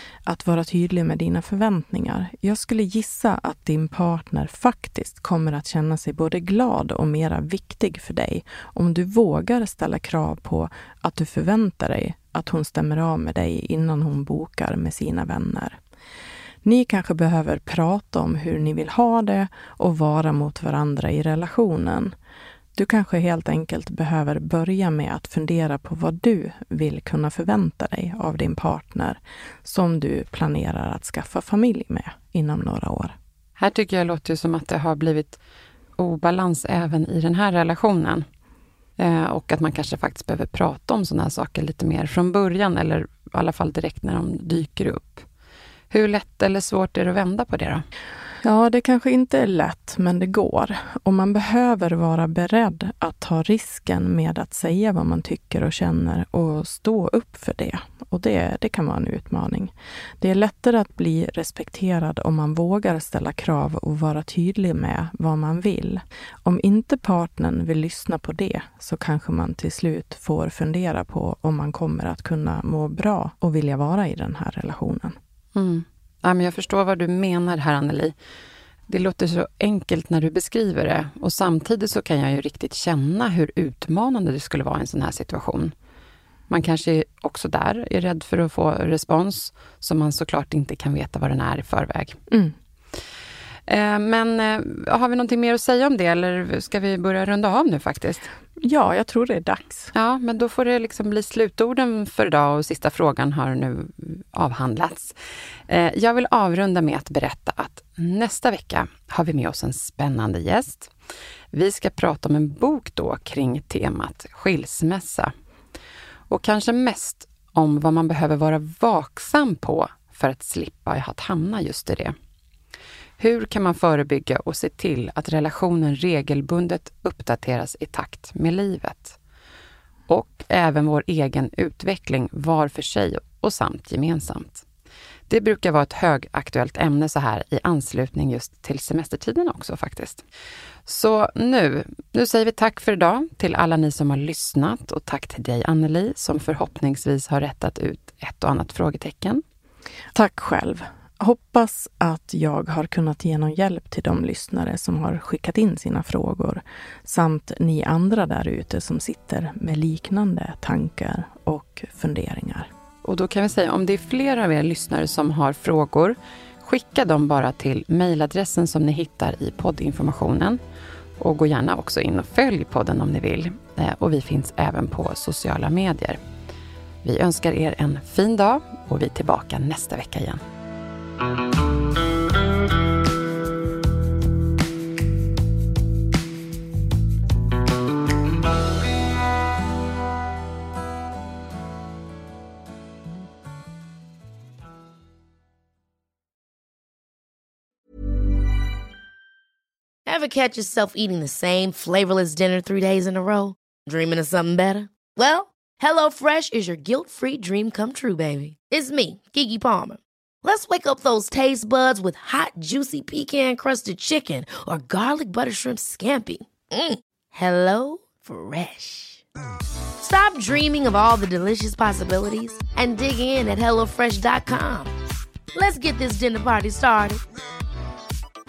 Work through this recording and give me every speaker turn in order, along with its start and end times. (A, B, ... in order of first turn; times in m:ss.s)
0:00.2-0:15.8 A
0:16.6-0:22.1 A
0:22.8-0:33.2 A
0:33.6-0:35.4 B
0:36.0-0:38.2 B
0:39.0-0:45.2 B
0:45.9-0:47.8 B
0:48.4-1:15.2 A
1:15.5-1:18.1 B
1:18.9-1:25.7 B
1:26.5-1:32.2 B
1:32.3-1:32.5 A
1:33.7-1:38.3 B
1:38.6-1:39.9 A
1:39.9-1:45.2 B
1:45.7-1:50.9 B
1:51.5-1:55.3 B
1:56.3-2:02.1 B
2:03.2-2:09.2 B
2:10.1-2:14.6 B
2:15.3-2:20.2 B
2:20.8-2:29.4 B
2:30.1-2:42.7 A
2:43.0-2:50.6 B
2:51.2-2:56.2 B
2:57.0-3:00.4 B
3:20.0-3:39.2 C
3:40.0-3:44.9 C
3:45.5-3:47.2 C